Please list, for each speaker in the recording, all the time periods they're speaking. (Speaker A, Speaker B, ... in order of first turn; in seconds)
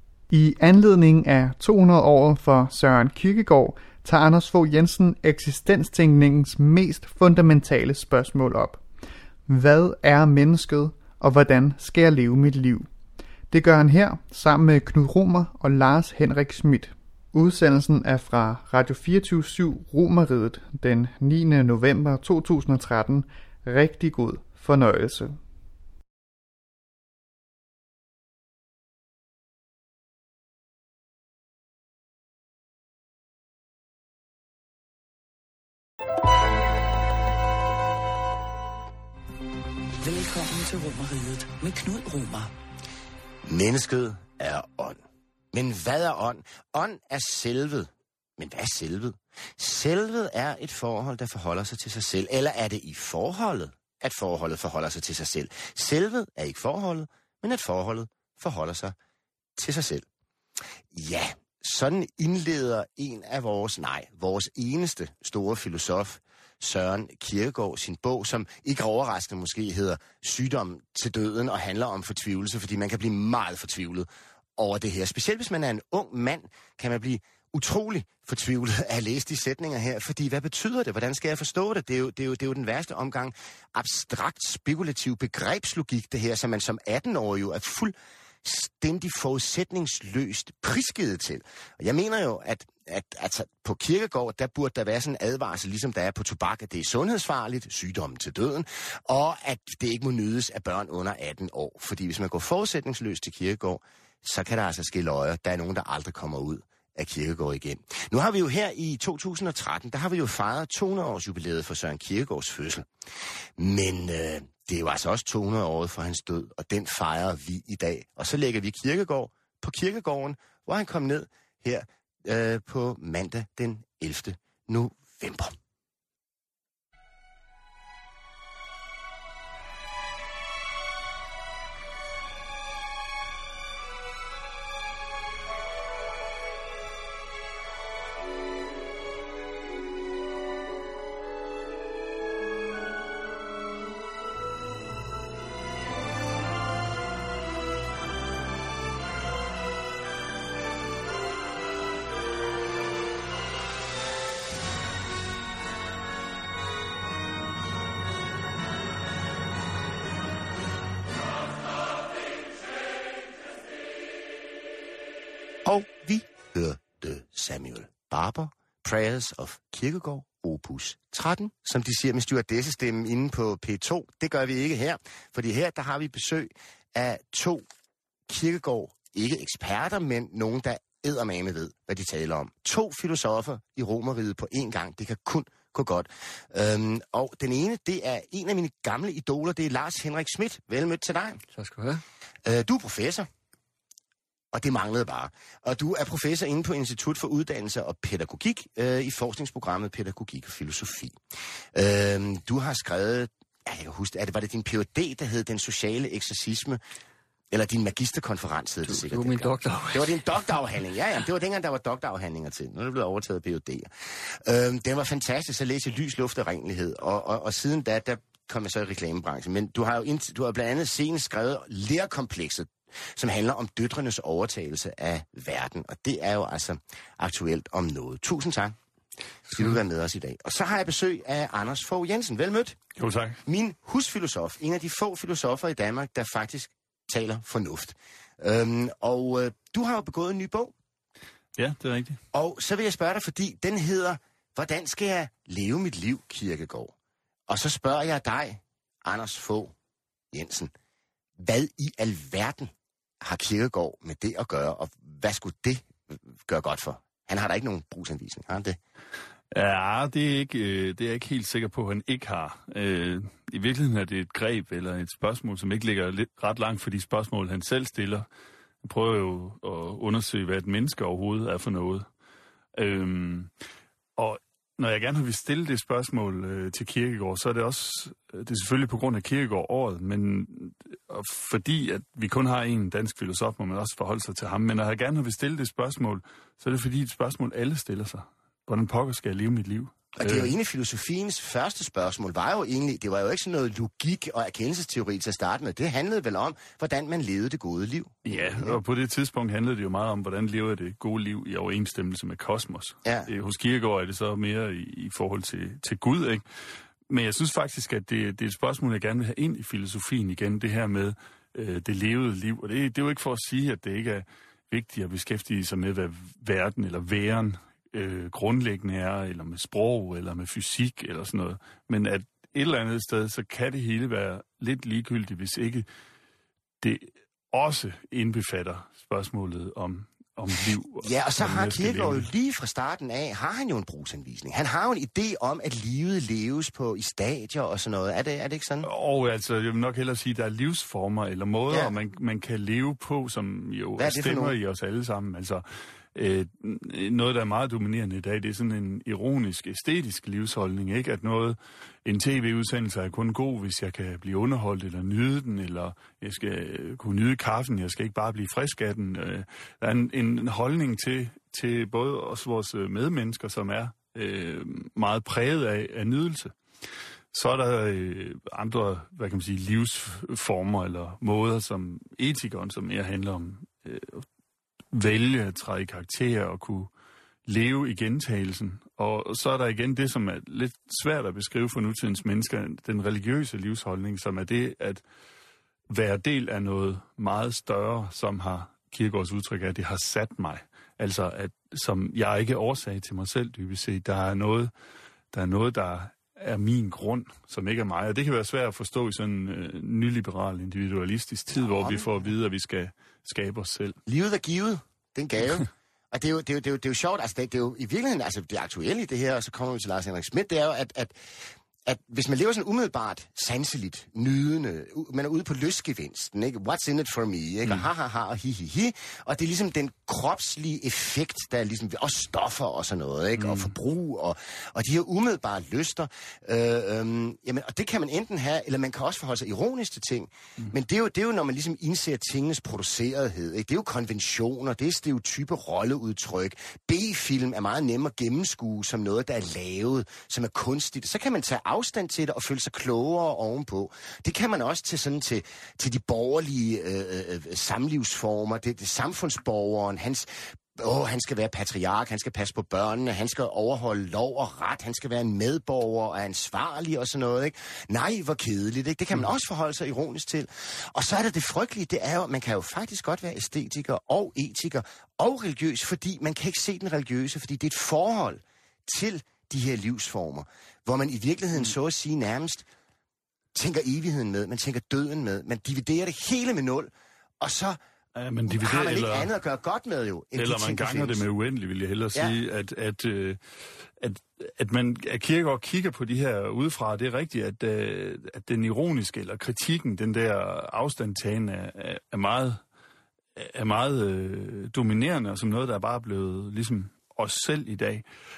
Speaker A: 0.3-8.8, 9.5-12.9, 13.5-25.4
Speaker B: 40.0-42.5
Speaker C: 43.5-45.0, 45.5-58.9, 59.5-60.0, 60.9-112.9, 113.6-125.5, 165.6-177.6, 178.3-191.4, 192.4-193.3, 194.5-201.2, 201.7-206.8, 207.5-228.8, 229.5-232.8, 233.4-240.7, 242.3-246.9, 247.5-249.7, 250.3-250.7, 251.4-252.7, 253.2-258.8, 290.2-298.8, 331.0-338.9, 341.7-341.9, 344.0-344.6, 401.6-402.1, 404.1-411.1, 411.9-472.6, 473.5-477.8, 478.5-481.2
Speaker D: 191.5-192.0, 208.8-210.2
Speaker E: 233.0-233.4, 241.6-242.2, 259.5-268.3, 268.8-272.1, 272.8-273.5, 274.1-290.5, 298.2-306.4, 307.1-325.9, 326.8-332.3, 338.8-366.5, 367.3-374.2, 374.9-376.9, 377.4-385.0, 385.9-394.7, 395.3-404.0, 423.4-423.7, 478.1-479.3, 480.4-483.4, 484.0-492.6, 493.4-498.0